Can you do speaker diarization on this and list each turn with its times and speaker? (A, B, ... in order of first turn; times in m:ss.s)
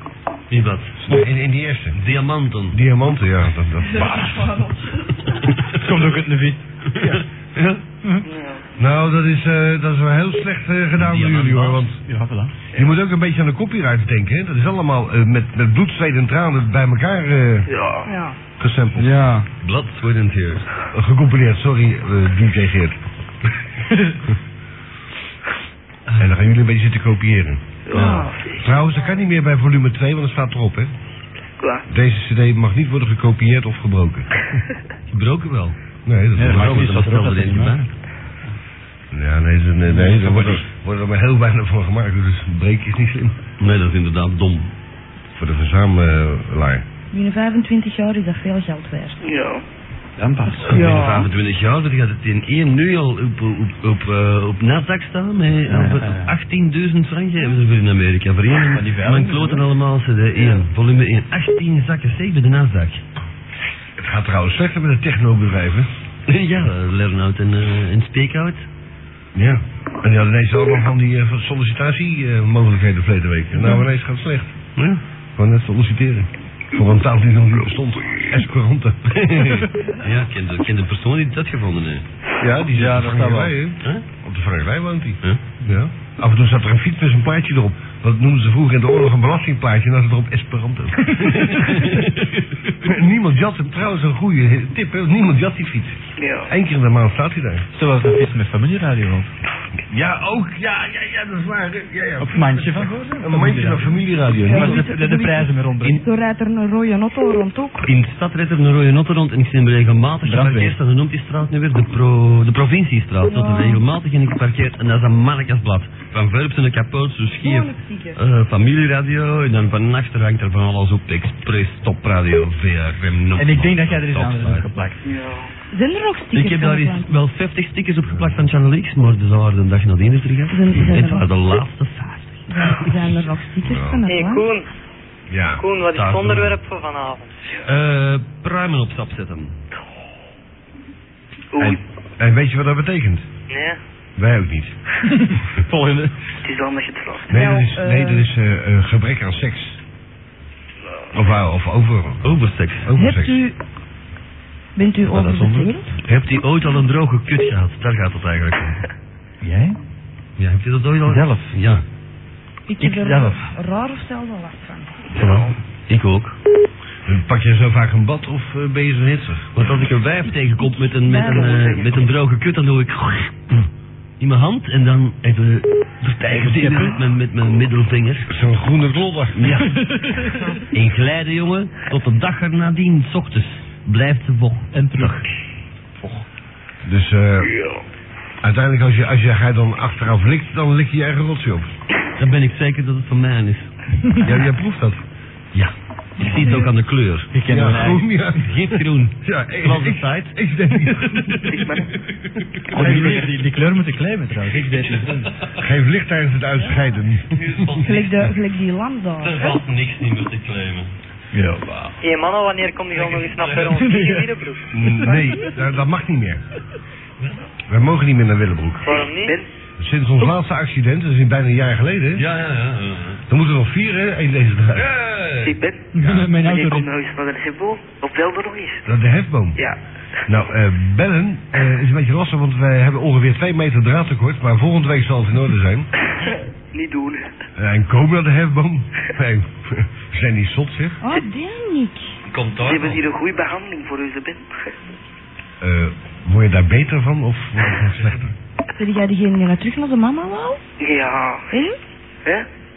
0:00.5-0:01.0 A
0:01.0-0:02.0 B
0:02.0-0:02.8 A
0:02.7-0:04.2 B
0:04.0-0:04.4 C
0:05.7-0:06.6 C
0:06.9-0:07.8 A
0:08.2-0:08.6 D
0:08.8-0:12.0 B
0:11.0-0:11.9 A
0:12.1-0:12.5 C
0:12.7-0:17.7 B
0:17.7-0:18.1 D
0:18.1-0:18.4 E
0:18.6-0:19.1 B
0:19.0-0:19.5 C
0:19.6-0:20.7 A
0:20.9-0:22.9 B
0:26.2-0:27.6 B
0:27.9-0:28.7 D
0:27.9-0:28.3 E
0:28.6-0:30.9 B
0:31.9-0:34.3 B
0:35.1-0:35.8 A
0:36.1-0:36.8 B
0:36.4-0:37.9 C
0:36.4-0:37.8 A
0:39.1-0:43.4 B
0:40.0-0:40.6 A
0:43.6-0:44.7 A
0:45.4-0:46.8 B
0:47.1-0:49.2 E
0:49.2-0:49.6 D
0:50.2-0:51.0 C
0:50.6-1:03.0 A
0:55.7-0:56.3 C
0:58.7-0:59.7 C
1:04.0-1:05.9 B
1:06.3-1:08.7 A
1:09.4-1:14.6 B
1:14.8-1:15.0 A
1:15.4-1:19.7 B
1:20.0-1:22.0 A
1:22.4-1:31.9 B
1:22.7-1:23.6 C
1:31.3-1:32.4 A
1:32.8-1:37.6 B
1:36.2-1:36.5 D
1:37.7-1:39.3 C
1:39.9-1:44.8 B
1:42.2-1:46.0 C
1:44.4-1:47.9 E
1:47.8-2:04.7 A
1:50.2-1:50.8 C
1:53.2-1:53.8 E
1:57.4-1:58.2 E
2:03.4-2:05.0 C
2:05.0-2:05.5 D
2:05.7-2:07.1 E
2:06.3-2:12.9 A
2:08.1-2:08.4 B
2:10.5-2:11.3 E
2:12.5-2:14.5 E
2:13.6-2:14.0 B
2:14.1-2:14.7 F
2:15.3-2:15.6 B
2:15.6-2:17.3 F
2:15.9-2:16.6 A
2:17.6-2:19.6 A
2:21.5-2:21.8 D
2:21.6-2:23.3 B
2:23.5-2:23.8 F
2:24.2-2:24.8 B
2:25.1-2:26.1 C
2:26.4-2:27.3 D
2:27.3-2:29.8 B
2:27.3-2:28.3 E
2:31.1-2:33.4 B
2:32.2-2:32.9 A
2:33.0-2:33.6 E
2:34.8-2:35.9 E
2:35.1-2:35.8 C
2:36.0-2:38.9 A
2:39.4-2:39.8 C
2:40.4-2:41.8 A
2:41.1-2:41.6 C
2:42.7-2:45.5 E
2:42.8-2:43.4 C
2:45.2-2:46.4 A
2:47.1-2:49.9 B
2:49.6-2:53.6 A
2:50.2-2:52.0 E
2:54.2-2:58.3 A
2:56.3-2:57.0 C
2:58.3-2:59.6 B
2:59.4-2:59.7 A
2:59.6-3:00.5 C
3:00.7-3:05.2 A
3:04.7-3:05.2 C
3:06.8-3:07.5 B
3:08.4-3:11.7 B
3:12.2-3:13.7 A
3:14.2-3:15.0 B
3:14.2-3:14.5 A
3:15.5-3:17.3 A
3:16.4-3:16.7 E
3:17.3-3:18.3 C
3:17.5-3:21.4 B
3:18.4-3:23.4 A
3:21.4-3:21.9 D
3:22.7-3:25.3 C
3:24.5-3:25.6 A
3:25.6-3:27.4 B
3:27.3-3:28.3 A
3:27.8-3:29.6 E
3:29.2-3:30.9 A
3:31.3-3:32.0 C
3:32.0-3:34.7 F
3:32.9-3:33.7 A
3:33.6-3:35.1 C
3:34.7-3:36.4 B
3:37.2-3:37.4 A
3:37.7-3:39.0 B
3:38.8-3:39.4 F
3:38.9-3:39.4 D
3:39.8-3:42.2 B
3:42.2-3:43.2 A
3:43.3-3:44.9 B
3:44.8-3:45.6 A
3:45.4-3:45.9 D
3:45.9-3:46.9 C
3:46.0-3:46.3 B
3:46.4-3:48.9 D
3:48.9-3:49.6 B
3:50.3-3:55.9 B
3:56.7-3:57.3 D
3:57.6-4:01.0 B
4:01.0-4:02.1 E
4:02.3-4:03.0 A
4:02.6-4:04.4 D
4:05.6-4:08.3 B
4:08.8-4:10.6 E
4:10.8-4:11.5 D
4:11.5-4:11.8 E